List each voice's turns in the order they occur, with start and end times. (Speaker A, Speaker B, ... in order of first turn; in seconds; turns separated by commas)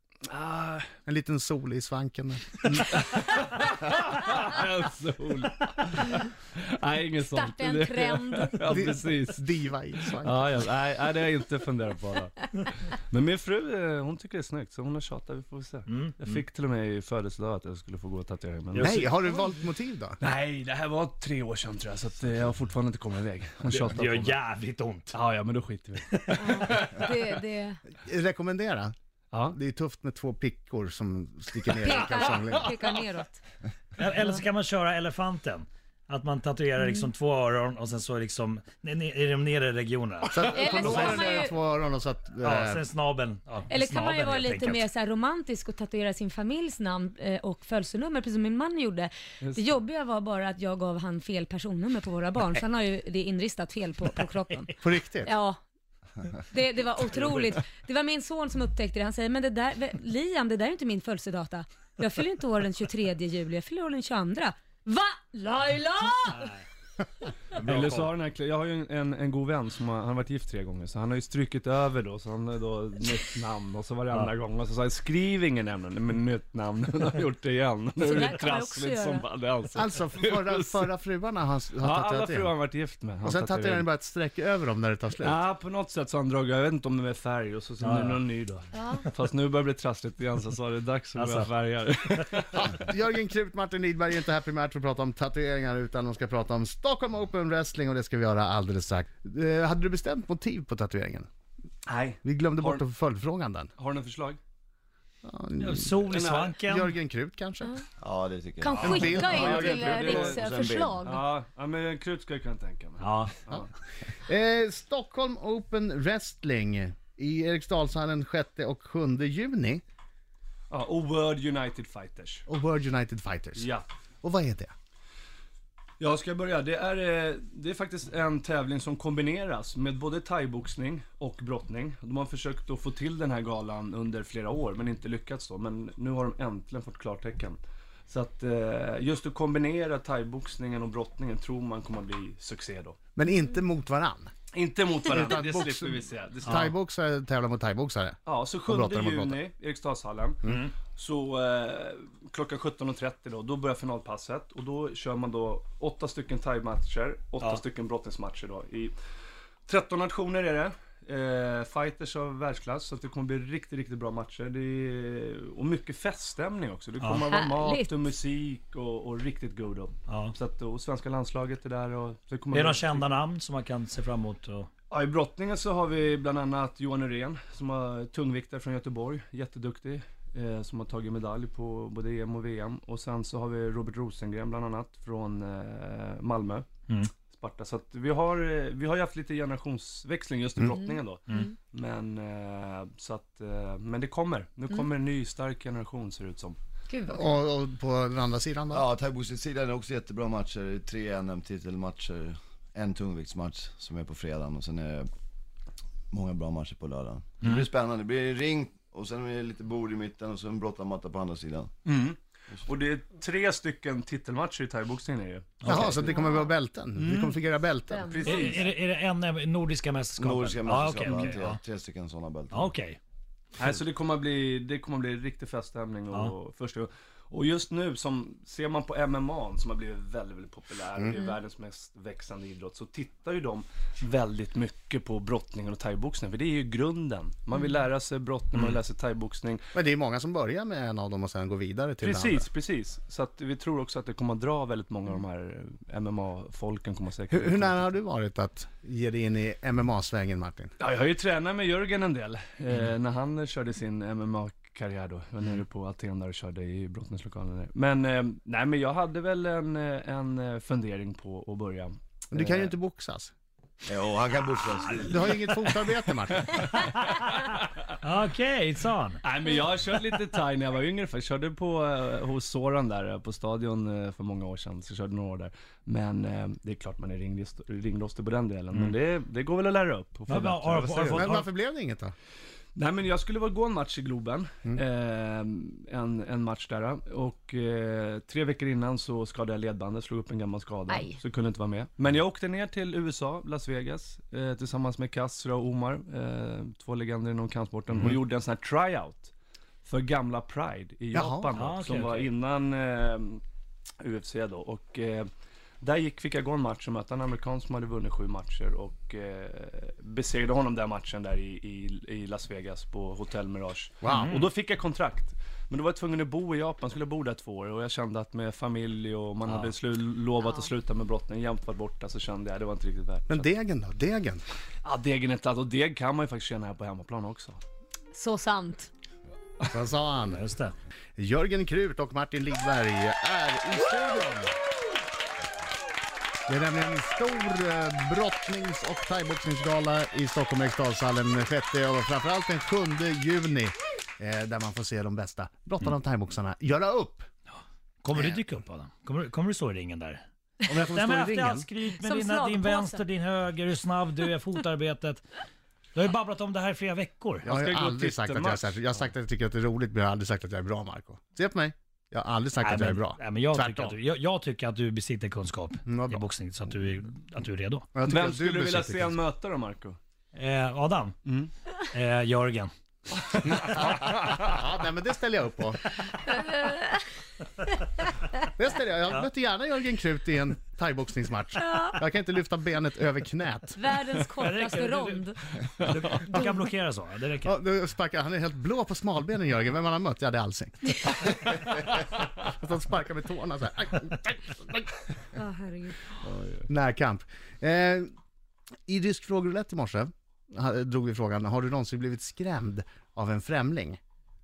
Speaker A: 0.3-0.9, Speaker B: 1.1-2.9, Speaker A: 2.8-9.5, Speaker C: 7.3-8.7, Speaker B: 8.7-10.7, Speaker A: 10.0-19.2, Speaker D: 15.9-16.4, Speaker D: 18.7-19.6, Speaker B: 18.8-20.2, Speaker A: 20.2-24.4, Speaker D: 23.7-25.2, Speaker A: 25.1-27.2, Speaker D: 26.1-26.9, Speaker C: 26.4-27.8, Speaker B: 27.9-28.9, Speaker B: 29.5-32.7, Speaker C: 31.8-33.4, Speaker D: 34.0-41.4, Speaker C: 36.8-37.1, Speaker B: 40.3-42.8, Speaker C: 40.5-41.6, Speaker D: 42.4-44.8, Speaker C: 43.7-55.6, Speaker A: 49.4-49.7, Speaker B: 54.8-55.4, Speaker C: 56.5-66.5, Speaker D: 66.3-66.7, Speaker D: 67.5-68.2, Speaker A: 67.6-80.9, Speaker C: 78.0-79.3, Speaker B: 79.8-82.5, Speaker A: 81.8-83.9, Speaker B: 83.2-85.4, Speaker A: 85.2-92.8, Speaker D: 87.8-88.2, Speaker C: 88.7-89.1, Speaker D: 91.2-91.5, Speaker B: 92.5-101.3, Speaker A: 101.9-102.9, Speaker B: 102.2-103.7, Speaker A: 103.8-104.4, Speaker B: 105.2-106.0, Speaker D: 105.6-107.0, Speaker A: 106.1-106.6, Speaker B: 106.7-107.8, Speaker E: 108.0-108.9, Speaker C: 108.6-111.2, Speaker B: 108.8-110.1, Speaker A: 108.8-110.5, Speaker E: 110.2-111.0, Speaker A: 111.0-113.7, Speaker D: 113.0-113.4, Speaker B: 114.2-119.8, Speaker A: 120.7-122.5, Speaker B: 122.5-123.7, Speaker A: 123.5-123.9, Speaker B: 124.2-124.7, Speaker A: 126.0-143.0, Speaker B: 143.2-144.3, Speaker A: 144.5-146.8, Speaker B: 145.1-149.4, Speaker A: 148.3-158.9, Speaker D: 150.4-150.7, Speaker A: 159.7-173.1, Speaker D: 167.0-167.3, Speaker C: 167.3-168.1, Speaker D: 170.1-170.3, Speaker D: 172.5-174.7, Speaker A: 174.9-186.7, Speaker A: 187.3-196.6, Speaker C: 190.7-191.5, Speaker C: 196.9-197.4, Speaker B: 197.1-198.9, Speaker E: 198.7-205.1, Speaker E: 206.1-211.7, Speaker A: 211.8-215.8, Speaker D: 215.6-216.1, Speaker B: 215.7-218.1, Speaker C: 216.0-216.5, Speaker C: 217.9-218.3, Speaker A: 218.1-218.7, Speaker D: 218.2-221.6, Speaker E: 220.2-222.7, Speaker D: 222.5-223.0, Speaker A: 223.6-239.7, Speaker B: 239.7-242.5, Speaker A: 242.0-247.9, Speaker B: 247.3-250.7, Speaker A: 250.8-262.7, Speaker B: 262.3-263.3, Speaker E: 263.8-265.4, Speaker B: 265.0-266.6, Speaker A: 266.3-266.7, Speaker D: 266.9-267.4, Speaker A: 267.4-267.9, Speaker D: 268.0-269.2, Speaker A: 269.2-281.3, Speaker D: 280.3-281.5, Speaker B: 281.1-282.1, Speaker A: 282.8-299.3, Speaker C: 290.9-291.2, Speaker A: 299.9-303.4, Speaker B: 301.1-301.5, Speaker D: 301.5-302.3, Speaker A: 304.0-305.3, Speaker A: 305.8-323.5, Speaker B: 314.0-314.3, Speaker D: 314.1-314.5, Speaker C: 320.4-320.7, Speaker B: 323.3-324.4, Speaker A: 324.8-327.6, Speaker C: 328.1-328.9, Speaker B: 329.7-330.4, Speaker D: 330.3-330.7, Speaker B: 331.2-334.6, Speaker B: 336.5-347.3, Speaker D: 348.0-355.3, Speaker B: 348.1-348.4, Speaker C: 351.9-353.0, Speaker D: 355.9-357.5, Speaker A: 357.4-358.8, Speaker B: 357.4-363.9, Speaker D: 362.6-367.9, Speaker B: 365.9-366.2, Speaker B: 367.9-369.2, Speaker A: 368.1-370.0, Speaker D: 370.4-371.2, Speaker A: 371.3-371.5, Speaker D: 371.9-372.7, Speaker A: 373.4-374.2, Speaker B: 373.6-375.9, Speaker C: 376.1-377.1, Speaker B: 378.6-383.8, Speaker C: 381.6-382.0, Speaker C: 383.8-385.4, Speaker D: 384.3-387.5, Speaker A: 385.8-386.2, Speaker C: 386.3-386.6, Speaker B: 387.4-391.1, Speaker B: 392.4-395.0, Speaker C: 395.3-396.0, Speaker A: 396.2-396.7, Speaker B: 396.7-398.1, Speaker B: 398.9-404.0